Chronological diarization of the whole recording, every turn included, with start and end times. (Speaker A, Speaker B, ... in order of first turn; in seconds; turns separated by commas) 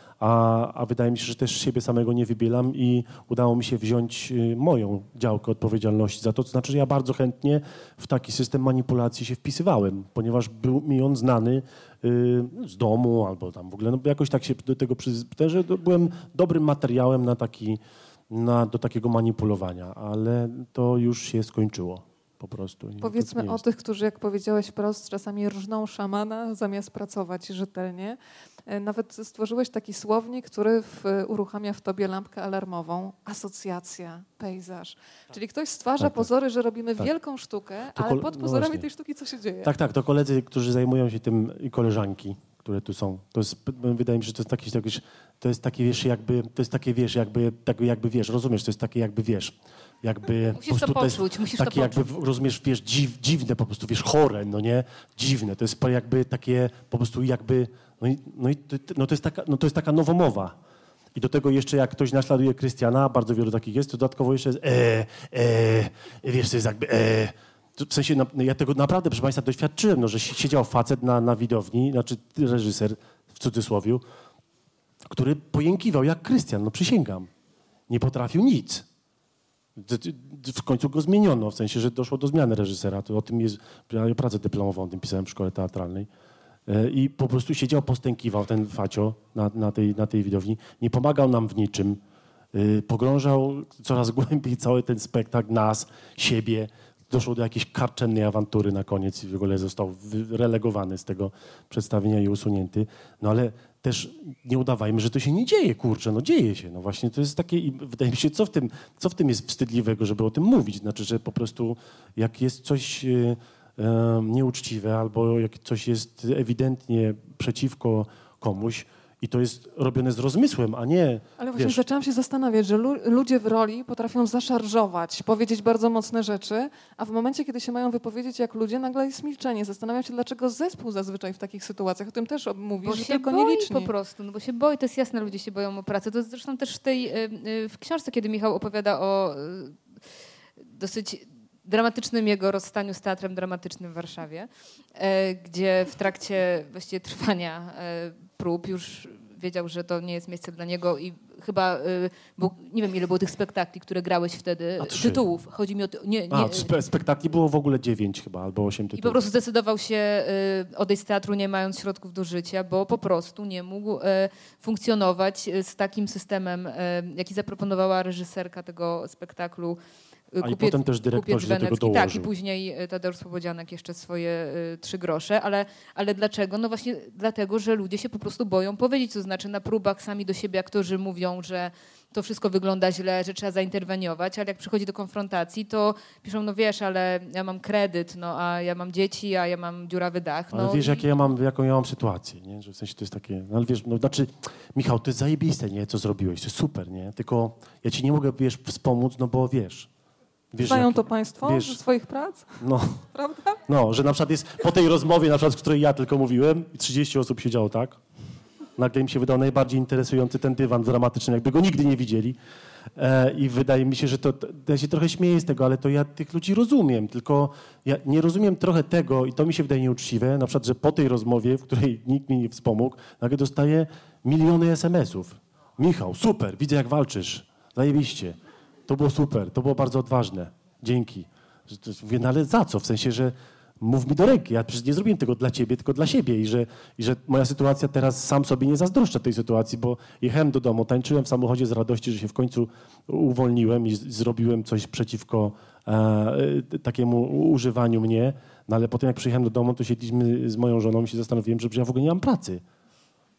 Speaker A: 0.2-23.6, Speaker B: 23.0-39.7, Speaker A: 36.0-36.3, Speaker A: 37.9-38.9, Speaker A: 39.6-60.5, Speaker C: 50.5-52.0, Speaker A: 61.1-74.0, Speaker A: 75.1-77.3, Speaker A: 77.9-78.9, Speaker A: 79.8-86.1, Speaker A: 86.7-92.0, Speaker A: 92.5-121.8, Speaker B: 121.4-133.9, Speaker C: 132.8-139.8, Speaker C: 140.6-156.7, Speaker A: 154.8-155.2, Speaker A: 156.3-159.2, Speaker C: 158.9-169.8, Speaker C: 170.3-191.1, Speaker A: 170.4-172.3, Speaker A: 190.5-199.9, Speaker A: 200.5-201.8, Speaker B: 200.6-203.6, Speaker A: 202.6-203.0, Speaker A: 203.7-208.0, Speaker A: 208.8-212.4, Speaker A: 212.9-252.6